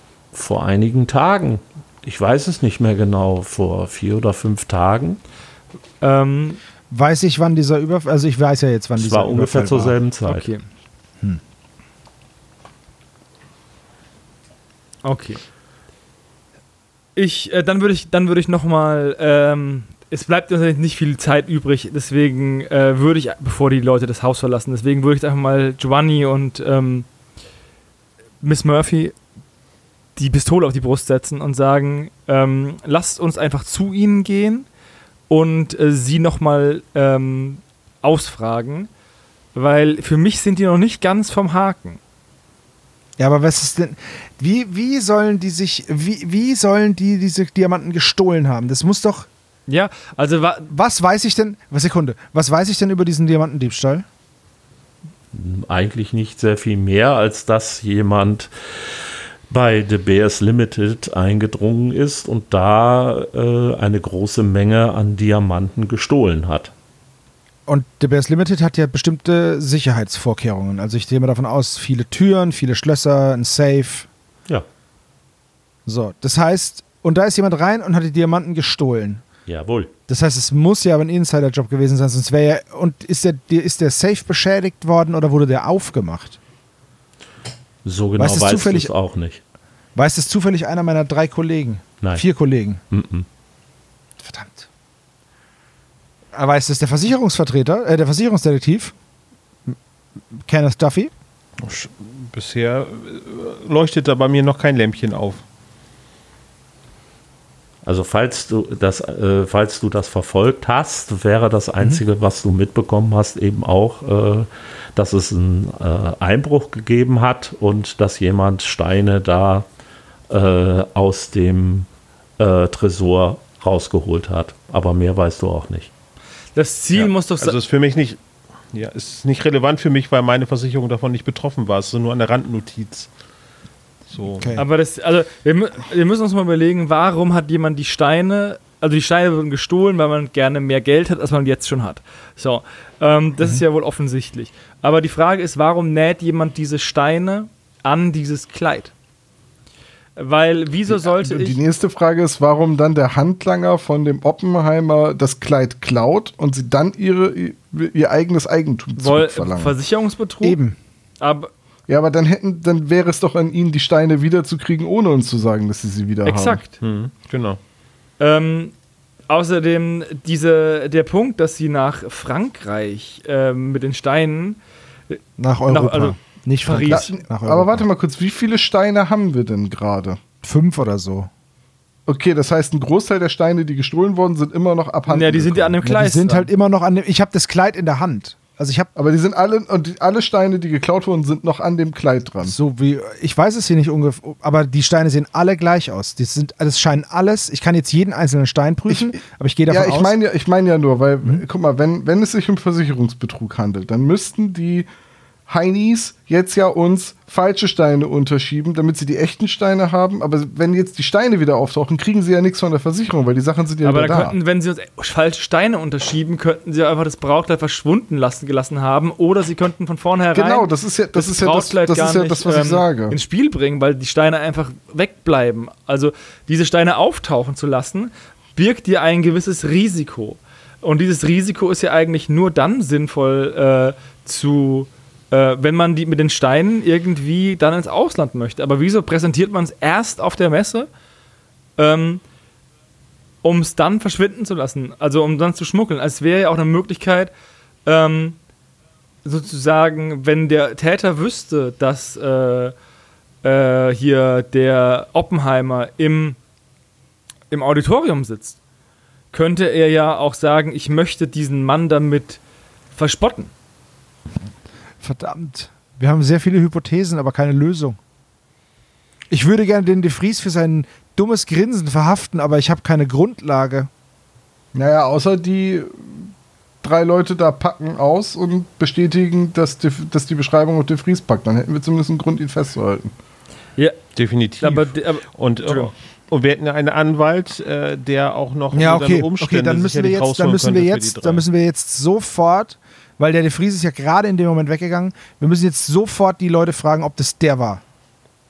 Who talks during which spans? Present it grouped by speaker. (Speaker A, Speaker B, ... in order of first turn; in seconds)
Speaker A: 0.3-5.2, 8.9-10.5, 55.3-58.9, 59.5-66.7, 79.5-79.9, 87.8-89.4, 92.9-93.2, 107.8-119.7, 120.3-121.9, 122.4-125.9
Speaker B: 6.0-6.6, 10.2-10.6, 15.0-15.4, 17.1-27.1, 28.4-29.1, 30.1-34.7, 35.3-38.9, 39.5-42.0, 49.7-50.7, 126.5-127.5, 134.6-148.9, 150.2-151.6, 159.0-160.6, 161.2-161.5, 166.2-166.7, 168.2-168.7, 169.3-174.6, 175.1-177.1, 185.1-186.5, 213.8-240.9, 241.8-242.2, 243.4-247.3, 247.8-248.4, 249.2-252.7, 253.4-256.4, 257.5-258.6, 259.3-262.4, 262.9-263.5, 284.6-285.9
Speaker C: 6.9-9.9, 43.2-49.3, 50.7-54.0, 67.7-74.1, 75.8-79.2, 80.1-86.4, 88.2-88.9, 89.9-92.8, 94.2-94.7, 96.3-98.9, 100.3-101.1, 134.4-134.6, 160.4-160.8, 175.4-177.8, 180.4-181.3, 185.8-188.9, 192.4-200.2, 265.0-268.0, 269.3-273.9, 288.7-297.8
Speaker D: 101.6-105.4, 126.9-128.2, 128.7-133.1, 134.1-134.6, 166.8-167.6, 284.1-291.4
Speaker E: 150.9-159.8, 161.9-166.6, 176.8-180.2, 182.1-185.8, 188.9-192.5, 198.9-199.2, 199.7-204.9, 205.5-214.4, 220.3-223.2, 274.7-276.3, 276.8-283.1